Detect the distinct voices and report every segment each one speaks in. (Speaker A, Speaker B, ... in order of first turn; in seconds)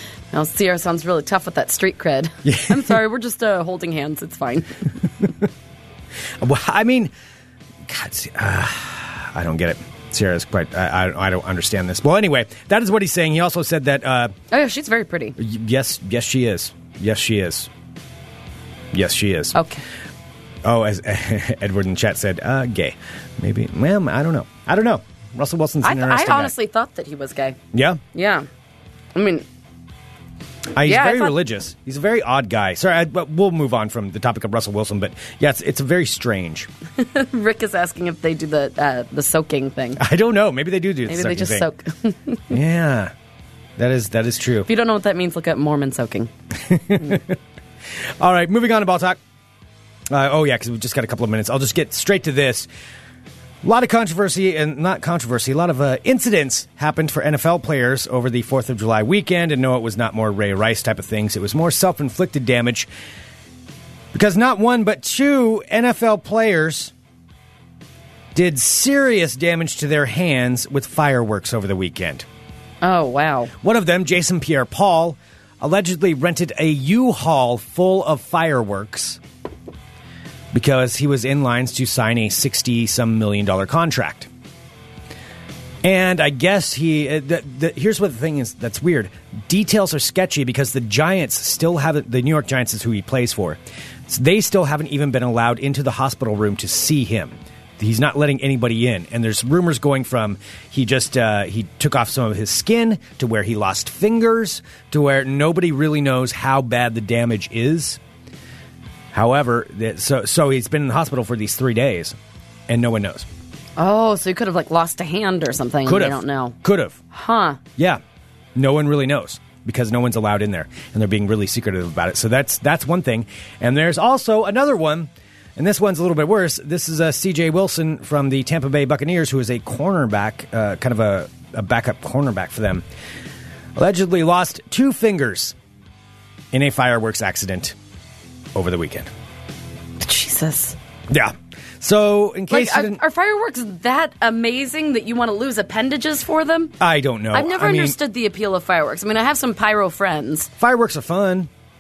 Speaker A: 0.3-4.9, 14.5-15.4, 19.6-19.8, 25.8-27.6, 28.1-28.5, 29.1-29.5, 30.8-31.4, 37.0-40.0, 41.1-42.6, 44.7-46.3, 72.8-73.5, 113.8-116.6, 117.1-117.6, 140.0-140.8, 142.5-146.8, 147.3-150.5
Speaker B: 2.5-2.9, 6.4-7.1, 7.9-14.3, 15.4-17.7, 18.9-19.6, 20.6-26.5, 27.7-28.0, 30.7-36.7, 40.0-41.7, 42.5-43.1, 43.8-44.7, 46.7-47.4, 48.2-49.2, 50.1-52.7, 53.6-62.9, 64.1-66.9, 68.3-72.3, 73.6-79.2, 80.5-84.3, 85.8-108.0, 109.1-112.2, 112.7-113.3, 115.9-117.0, 118.6-132.8, 133.8-135.6, 136.5-137.8, 138.6-139.1, 141.1-143.0, 146.8-148.0, 150.6-151.5